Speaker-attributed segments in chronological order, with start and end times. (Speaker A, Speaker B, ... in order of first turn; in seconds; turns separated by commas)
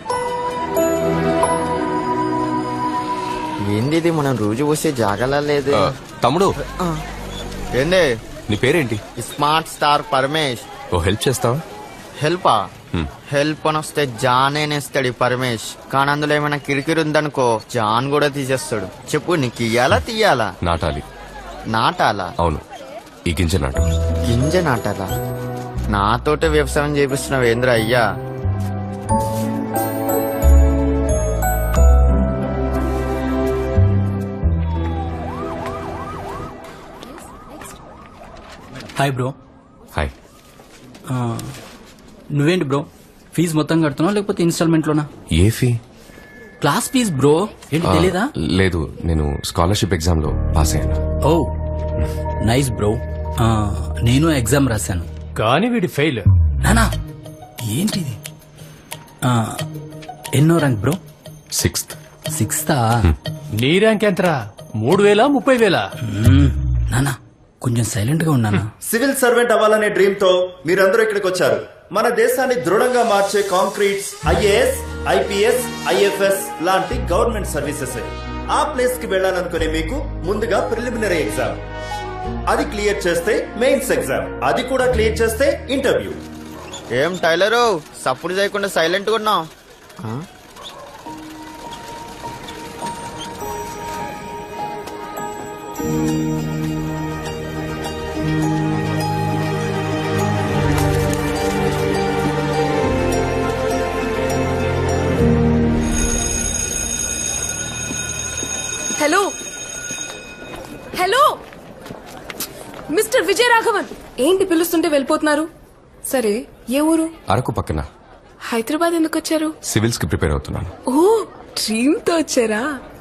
Speaker A: 3.7-5.8, Speaker B: 5.7-6.5, Speaker A: 7.8-8.1, Speaker B: 8.5-9.0, Speaker A: 9.2-10.7, Speaker B: 10.9-11.6, Speaker A: 12.2-12.6, Speaker A: 13.3-20.5, Speaker B: 20.6-21.0, Speaker A: 21.7-22.3, Speaker B: 23.3-23.9, Speaker A: 24.3-25.1, Speaker A: 25.9-28.0, Speaker C: 39.0-39.3, Speaker C: 42.4-45.1, Speaker B: 45.4-45.8, Speaker C: 46.6-48.2, Speaker B: 47.8-51.0, Speaker C: 52.4-55.1, Speaker D: 55.4-56.3, Speaker C: 57.7-58.2, Speaker C: 60.4-61.0, Speaker B: 61.5-62.0, Speaker C: 62.4-62.8, Speaker D: 63.6-65.8, Speaker C: 66.2-68.7, Speaker E: 70.0-71.3, Speaker E: 72.0-75.5, Speaker E: 76.2-77.9, Speaker E: 78.6-81.5, Speaker E: 82.5-86.1, Speaker A: 87.0-89.5, Speaker F: 109.0-109.3, Speaker F: 111.0-111.3, Speaker F: 112.9-115.5, Speaker F: 116.1-117.1, Speaker B: 117.3-117.8, Speaker F: 118.5-119.5, Speaker B: 119.7-120.7, Speaker F: 120.9-122.7